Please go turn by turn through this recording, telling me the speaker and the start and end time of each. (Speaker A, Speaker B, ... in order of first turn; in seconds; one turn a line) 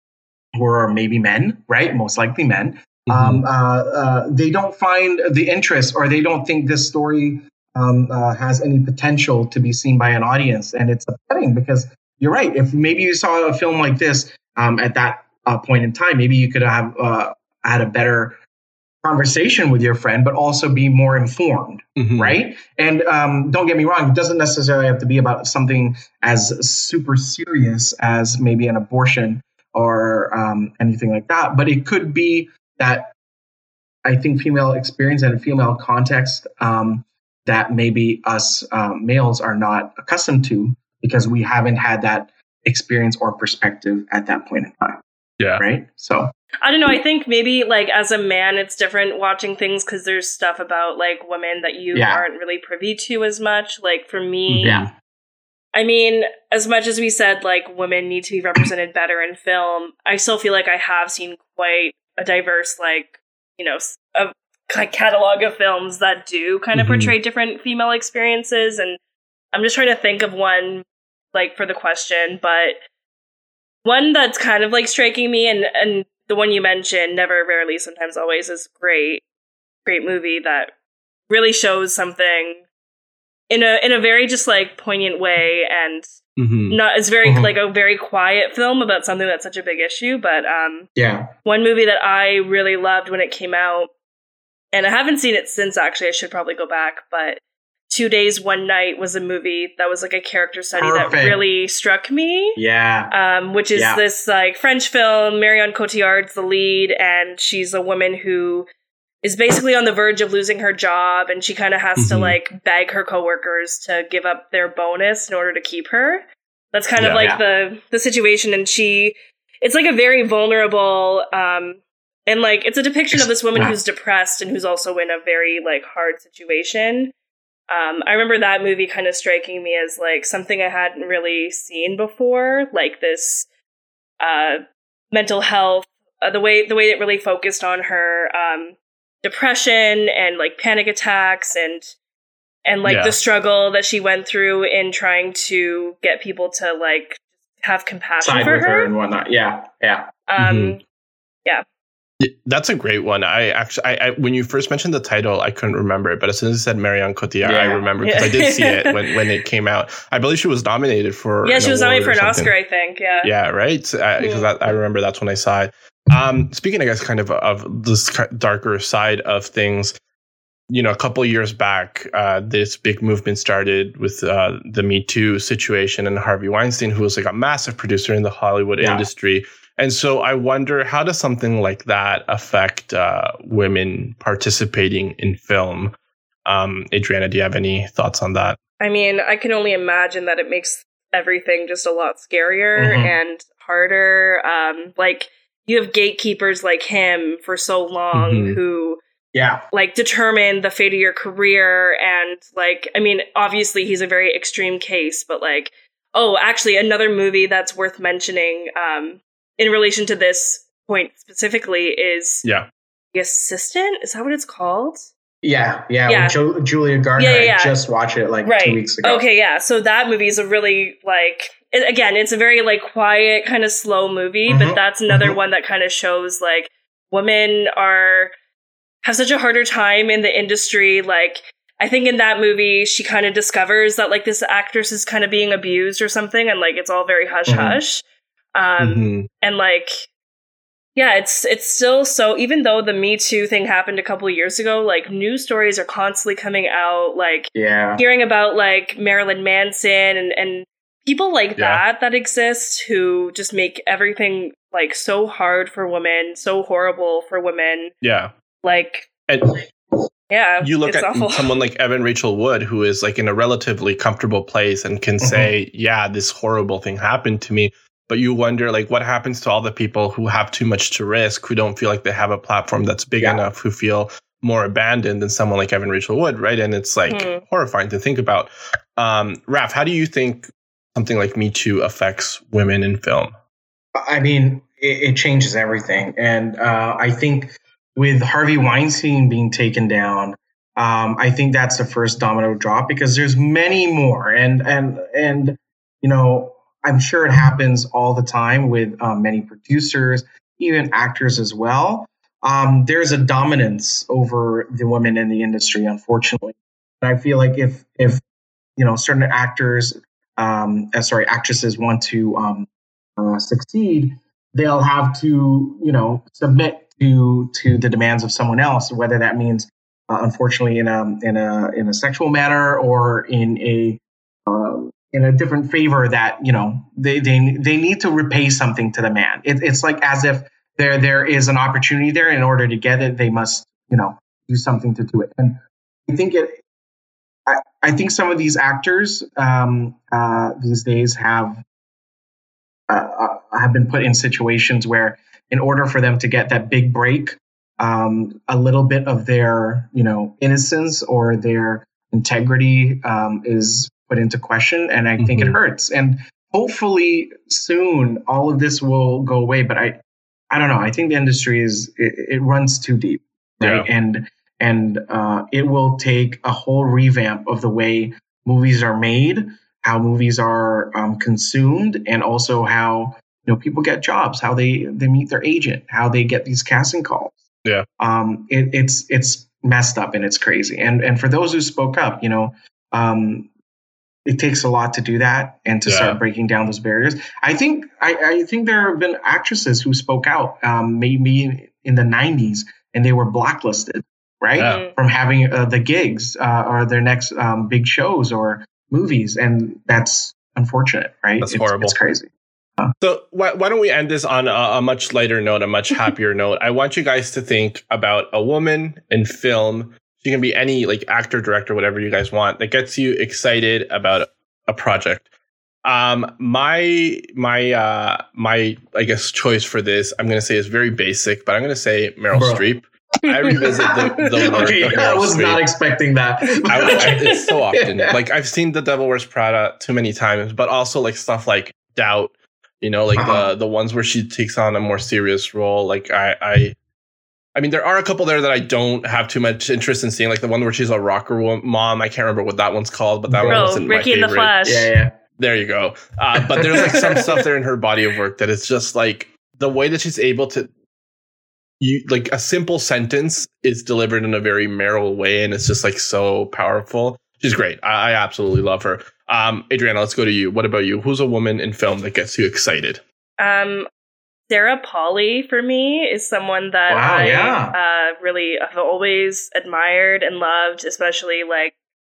Speaker A: 0.6-18.4
Speaker B: 3.1-3.4
Speaker A: 19.0-33.1
Speaker B: 22.0-22.4
Speaker A: 34.0-45.0
Speaker A: 45.6-46.3
Speaker C: 46.6-54.8
Speaker A: 51.9-52.2
Speaker B: 54.5-54.9
Speaker A: 54.6-54.9
Speaker C: 55.7-69.0
Speaker B: 66.8-67.1
Speaker C: 69.5-72.8
Speaker C: 73.8-79.2
Speaker C: 79.8-80.7
Speaker C: 81.3-82.6
Speaker C: 83.5-86.1
Speaker B: 86.4-86.8
Speaker C: 86.7-90.9
Speaker A: 87.2-87.5
Speaker A: 91.0-91.3
Speaker C: 91.5-93.9
Speaker C: 94.7-102.6
Speaker A: 100.8-101.4
Speaker A: 102.6-103.1
Speaker C: 103.1-108.7
Speaker A: 103.8-104.0
Speaker C: 109.2-127.1
Speaker B: 112.0-112.4
Speaker B: 117.0-117.2
Speaker A: 117.2-117.4
Speaker A: 123.1-123.8
Speaker C: 127.7-133.5
Speaker C: 134.2-141.9
Speaker C: 142.7-148.9
Speaker B: 142.9-143.2
Speaker A: 148.2-150.1
Speaker C: 150.3-150.8
Speaker B: 150.4-150.8
Speaker B: 152.2-162.5
Speaker A: 157.4-157.9
Speaker C: 158.0-159.2
Speaker C: 161.4-163.3
Speaker B: 163.2-169.9
Speaker C: 164.2-164.5
Speaker B: 170.7-185.9
Speaker A: 178.8-179.1
Speaker B: 186.5-188.6
Speaker C: 188.8-199.0
Speaker A: 192.8-193.2
Speaker B: 198.1-198.6
Speaker A: 199.3-199.6
Speaker C: 199.7-212.4
Speaker C: 213.1-215.1
Speaker A: 215.4-219.2
Speaker C: 216.1-216.4
Speaker C: 217.2-217.8
Speaker C: 218.4-228.3
Speaker A: 224.5-225.4
Speaker C: 229.0-238.0
Speaker A: 237.5-237.8
Speaker C: 238.6-240.1
Speaker B: 238.8-239.3
Speaker C: 241.0-257.9
Speaker A: 247.6-248.0
Speaker B: 251.6-251.8
Speaker B: 258.0-258.3
Speaker C: 258.6-259.1
Speaker B: 259.3-259.6
Speaker C: 260.3-261.5
Speaker B: 260.6-283.3
Speaker A: 265.2-265.5
Speaker C: 277.1-277.4
Speaker A: 283.9-308.2
Speaker A: 308.8-336.6
Speaker A: 337.5-341.6
Speaker A: 342.9-360.0
Speaker B: 355.2-355.6
Speaker A: 360.5-377.4
Speaker B: 363.6-363.9
Speaker A: 378.0-383.5
Speaker A: 384.3-402.9
Speaker B: 385.9-386.2
Speaker B: 394.6-394.8
Speaker C: 394.6-394.9
Speaker B: 401.4-401.9
Speaker B: 403.0-415.3
Speaker B: 415.9-425.6
Speaker A: 422.3-422.6
Speaker C: 423.2-424.3
Speaker A: 423.6-428.2
Speaker C: 426.5-427.4
Speaker B: 426.7-436.8
Speaker A: 433.1-433.5
Speaker B: 437.6-444.6
Speaker A: 443.3-443.7
Speaker C: 443.5-444.9
Speaker A: 444.6-445.1
Speaker B: 445.4-450.7
Speaker A: 446.6-447.2
Speaker B: 451.8-463.0
Speaker C: 463.4-463.9
Speaker C: 464.5-471.7
Speaker A: 466.9-467.8